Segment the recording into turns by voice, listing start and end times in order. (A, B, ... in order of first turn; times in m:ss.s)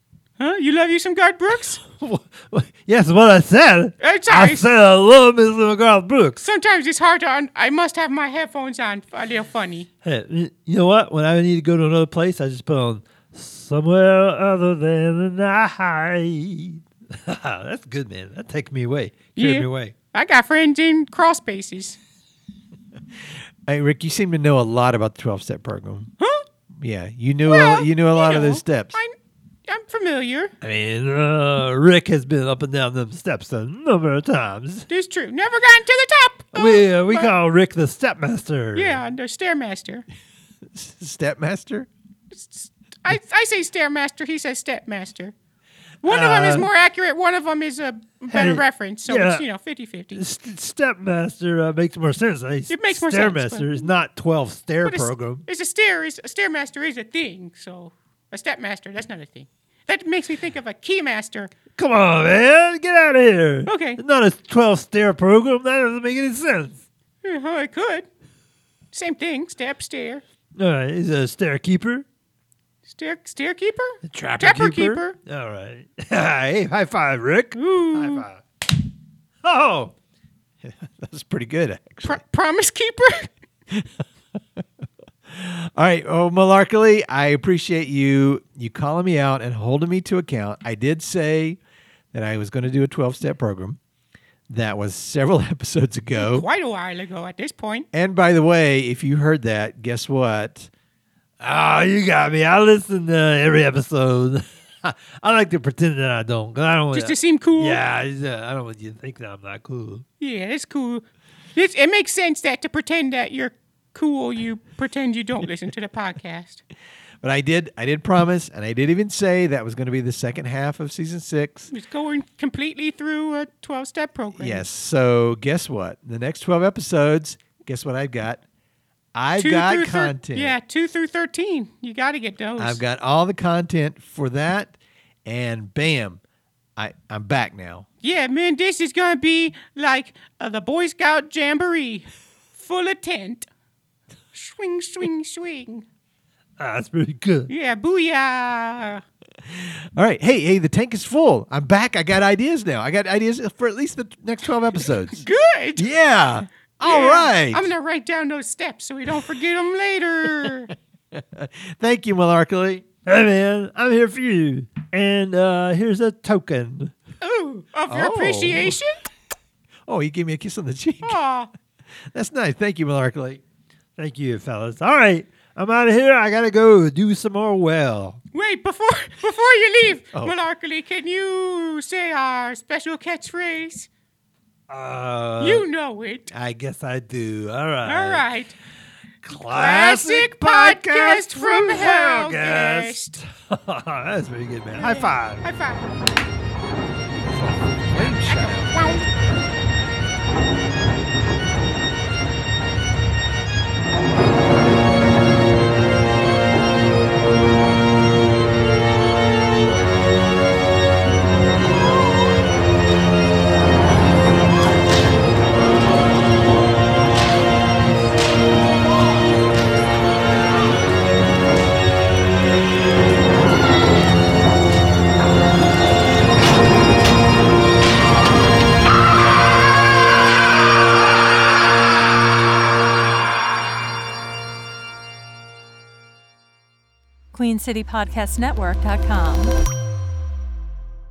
0:00.4-0:01.8 A
0:01.9-0:06.4 B
0:04.0-0:04.6 A
0:06.4-0:09.9 A
0:10.0-0:19.9 B
0:19.4-0:22.0 A
0:23.7-0:26.1 C
0:26.2-0:26.5 A
0:26.7-0:29.0 C
0:27.5-0:29.2 A
0:29.7-0:30.5 A
0:30.6-0:34.9 B
0:34.9-0:37.3 A
0:36.5-0:39.0 B
0:38.8-0:40.0 A
0:40.7-0:41.9 C
0:42.3-0:45.3 A
0:46.0-0:50.2 A
0:46.1-0:46.7 B
0:48.3-0:49.5 B
0:50.1-0:55.4 B
0:52.7-0:53.9 A
0:54.8-1:01.5 A
1:01.8-1:06.8 B
1:03.7-1:04.0 A
1:07.2-1:08.1 A
1:08.9-1:10.2 A
1:10.6-1:12.0 B
1:12.9-1:15.2 A
1:14.0-1:18.4 B
1:17.6-1:18.3 A
1:19.4-1:19.9 B
1:20.6-1:22.2 C
1:22.0-1:23.3 A
1:25.3-1:31.6 C
1:32.1-1:33.8 C
1:34.5-1:36.5 C
1:36.2-1:37.9 A
1:37.9-1:40.7 C
1:41.4-1:50.0 B
1:46.9-1:47.8 A
1:50.2-1:51.0 A
1:51.6-1:56.6 A
1:57.2-2:01.7 C
2:01.7-2:04.7 A
2:04.4-2:08.4 C
2:09.2-2:10.6 C
2:09.4-2:12.8 A
2:12.6-2:16.2 C
2:16.8-2:17.9 C
2:18.0-2:23.5 A
2:24.3-2:25.9 A
2:26.6-2:27.5 B
2:27.5-2:29.0 A
2:29.5-2:35.3 C
2:35.1-2:35.9 A
2:35.8-2:37.7 C
2:36.8-2:40.7 A
2:41.1-2:42.9 C
2:43.1-2:46.9 B
2:47.2-2:49.0 A
2:47.9-2:48.8 C
2:49.9-2:51.2 C
2:51.0-2:51.5 A
2:52.1-2:53.4 C
2:54.0-2:58.2 B
2:58.3-3:03.9 A
3:04.7-3:05.7 B
3:05.4-3:06.3 A
3:06.3-3:08.2 B
3:07.8-3:08.6 A
3:09.2-3:15.5 B
3:09.5-3:13.2 A
3:14.8-3:15.9 A
3:17.3-3:19.1 C
3:18.4-3:19.1 A
3:57.3-3:59.6 D